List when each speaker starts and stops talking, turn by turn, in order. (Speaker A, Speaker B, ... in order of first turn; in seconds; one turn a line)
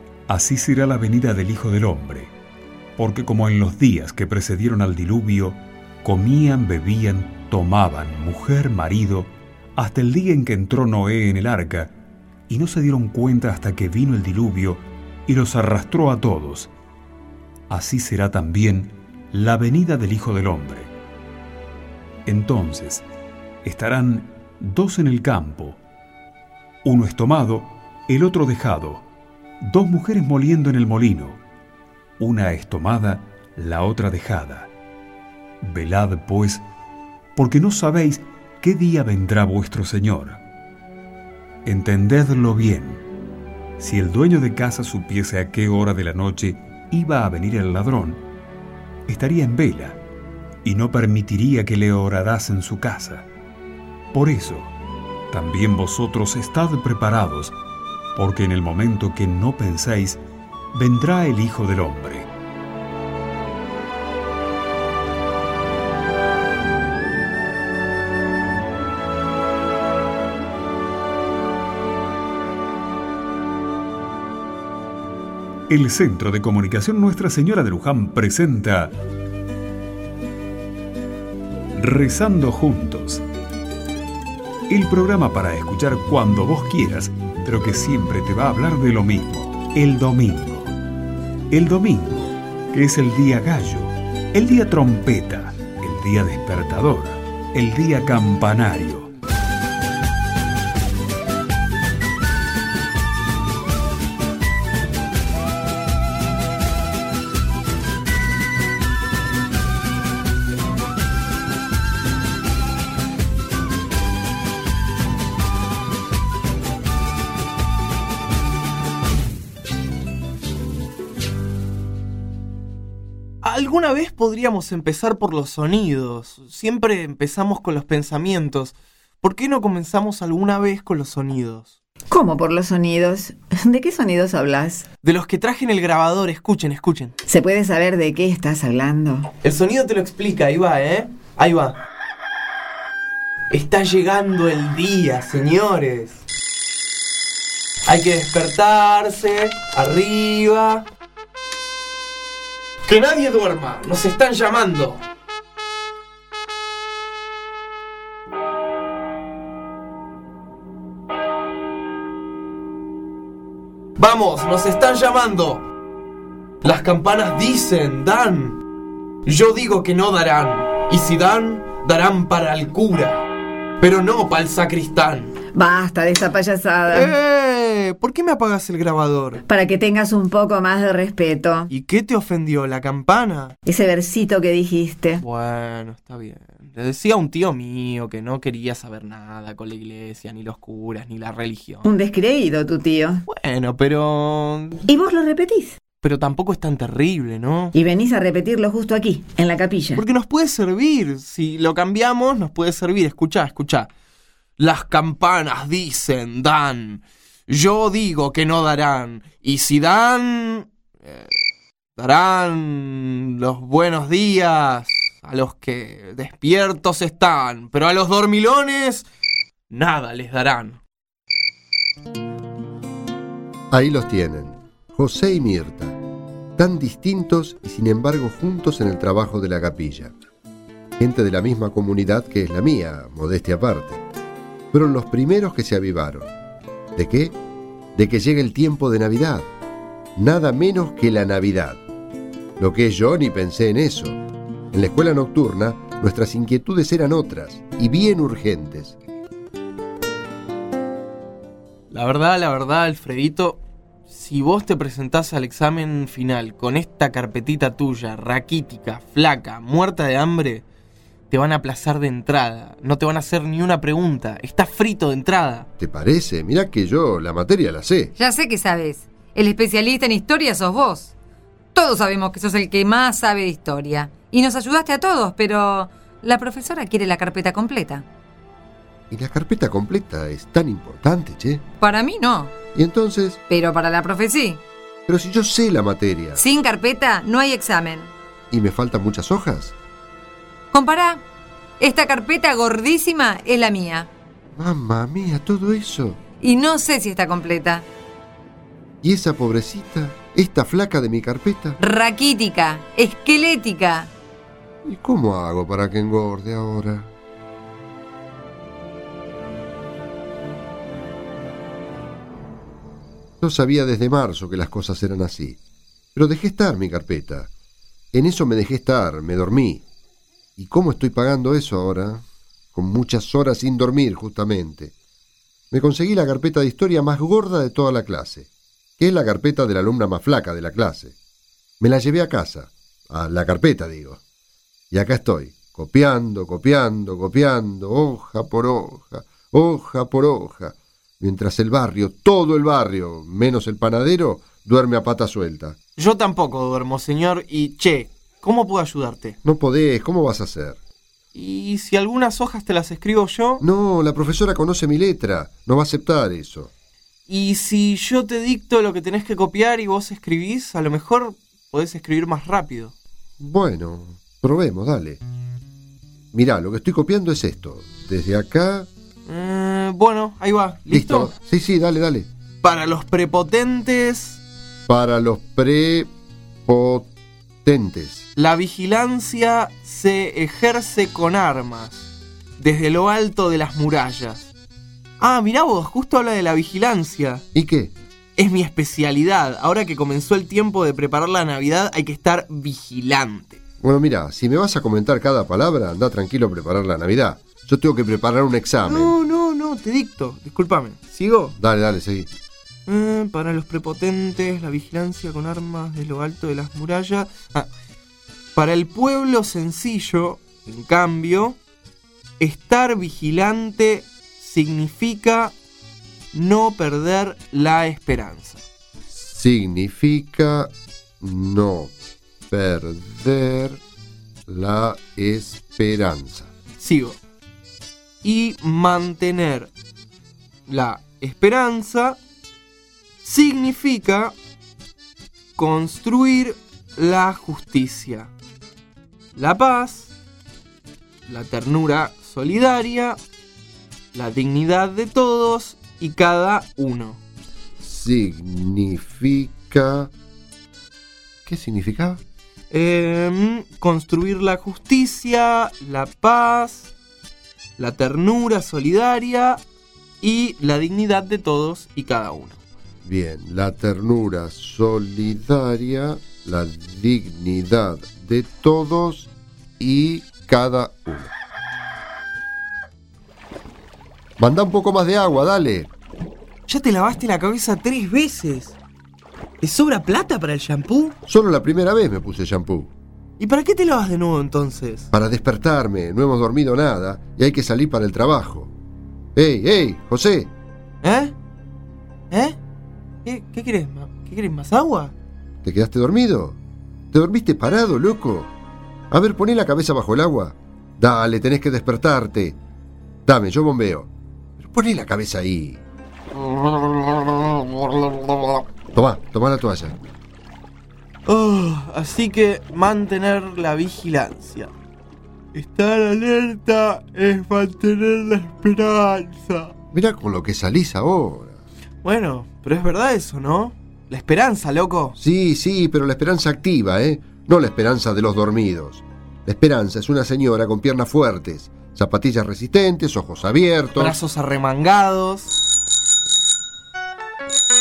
Speaker A: 0.3-2.3
Speaker A: 3.0-11.9
Speaker A: 12.5-16.7
Speaker A: 17.7-20.9
Speaker A: 22.3-23.1
Speaker A: 23.6-25.8
Speaker A: 26.8-29.1
Speaker A: 29.6-31.4
Speaker A: 32.2-34.7
Speaker A: 35.6-36.6
Speaker A: 37.4-40.4
Speaker A: 41.6-43.0
Speaker A: 43.8-48.2
Speaker A: 49.1-50.0
Speaker A: 50.6-53.3
Speaker A: 54.1-54.7
Speaker A: 55.3-57.5
Speaker A: 58.1-60.2
Speaker A: 60.7-62.3
Speaker A: 75.7-79.0
Speaker A: 81.8-83.2
Speaker A: 84.7-90.8
Speaker A: 91.5-99.1
Speaker B: 123.4-131.7
Speaker C: 132.1-134.8
Speaker B: 135.0-137.1
Speaker C: 137.3-139.3
Speaker B: 139.4-141.8
Speaker B: 143.5-146.2
Speaker B: 147.9-150.8
Speaker B: 152.9-155.0
Speaker B: 164.0-165.7
Speaker B: 166.6-168.6
Speaker B: 169.3-173.2
Speaker B: 173.8-175.3
Speaker C: 175.5-177.1
Speaker B: 176.9-179.4
Speaker C: 179.5-181.7
Speaker B: 181.7-183.6
Speaker C: 183.7-185.2
Speaker B: 185.2-191.9
Speaker C: 191.8-193.2
Speaker B: 193.3-194.8
Speaker C: 194.9-195.8
Speaker B: 196.0-197.8
Speaker C: 197.7-200.0
Speaker B: 199.9-203.9
Speaker B: 204.6-211.3
Speaker B: 212.0-219.1
Speaker B: 219.7-220.8
Speaker D: 223.7-226.0
Speaker D: 226.6-230.1
Speaker D: 231.0-234.0
Speaker D: 234.7-236.3
Speaker D: 237.0-237.3
Speaker D: 238.0-239.5
Speaker D: 240.2-241.8
Speaker D: 242.6-244.2
Speaker D: 244.7-249.0
Speaker B: 251.9-260.7
Speaker B: 261.3-265.7
Speaker D: 265.8-268.1
Speaker E: 268.2-271.1
Speaker E: 271.8-278.1
Speaker D: 279.1-281.6
Speaker E: 281.8-282.5
Speaker D: 282.8-283.4
Speaker E: 283.5-284.6
Speaker D: 285.1-286.4
Speaker E: 286.4-288.1
Speaker D: 288.5-289.8
Speaker E: 290.7-291.2
Speaker E: 291.8-294.1
Speaker D: 294.6-296.2
Speaker E: 296.4-297.9
Speaker D: 299.0-301.8
Speaker E: 301.8-304.1
Speaker D: 304.9-307.1
Speaker D: 313.4-315.6
Speaker D: 316.1-317.5
Speaker D: 318.1-319.8
Speaker D: 320.6-324.9
Speaker D: 325.7-328.5
Speaker D: 329.0-331.1
Speaker D: 331.8-334.2
Speaker D: 334.9-345.8
Speaker B: 346.0-349.4
Speaker D: 349.4-350.8
Speaker B: 351.3-353.6
Speaker D: 353.6-356.7
Speaker B: 357.3-362.9
Speaker D: 363.4-365.2
Speaker D: 366.3-368.9
Speaker B: 369.3-371.3
Speaker D: 370.9-372.3
Speaker B: 372.6-374.4
Speaker D: 374.9-376.1
Speaker D: 376.7-377.1
Speaker D: 377.6-378.3
Speaker B: 378.4-382.1
Speaker B: 382.6-384.5
Speaker B: 385.2-387.4
Speaker D: 387.5-387.9
Speaker B: 388.4-393.6
Speaker D: 393.8-399.1
Speaker B: 398.9-401.6
Speaker D: 401.6-402.3
Speaker B: 402.9-407.7
Speaker B: 408.6-411.6
Speaker B: 412.4-415.5
Speaker B: 416.3-418.6
Speaker D: 419.1-421.9
Speaker D: 422.5-423.8
Speaker D: 424.5-426.5
Speaker B: 426.8-427.2
Speaker B: 428.2-429.7
Speaker B: 430.7-432.2
Speaker B: 433.2-434.4
Speaker B: 435.6-438.3
Speaker B: 439.4-440.1
Speaker B: 441.3-443.2
Speaker B: 444.1-447.2
Speaker D: 447.8-450.1
Speaker D: 451.5-452.2
Speaker B: 452.7-456.9
Speaker B: 457.8-459.6
Speaker B: 460.2-462.6
Speaker D: 463.1-471.3
Speaker D: 474.4-475.9
Speaker B: 476.7-478.8
Speaker B: 479.6-481.2
Speaker D: 481.3-482.9
Speaker B: 483.4-485.1
Speaker D: 485.1-488.7
Speaker D: 489.4-490.5
Speaker B: 491.0-491.3
Speaker B: 492.3-492.6
Speaker B: 493.2-495.1
Speaker D: 495.6-496.6
Speaker D: 497.1-498.5
Speaker D: 499.1-502.6
Speaker D: 503.3-505.8
Speaker D: 508.9-510.0
Speaker B: 511.3-514.7
Speaker B: 515.5-519.7
Speaker D: 519.9-521.6
Speaker B: 522.0-525.2
Speaker D: 525.2-534.2
Speaker B: 534.0-535.5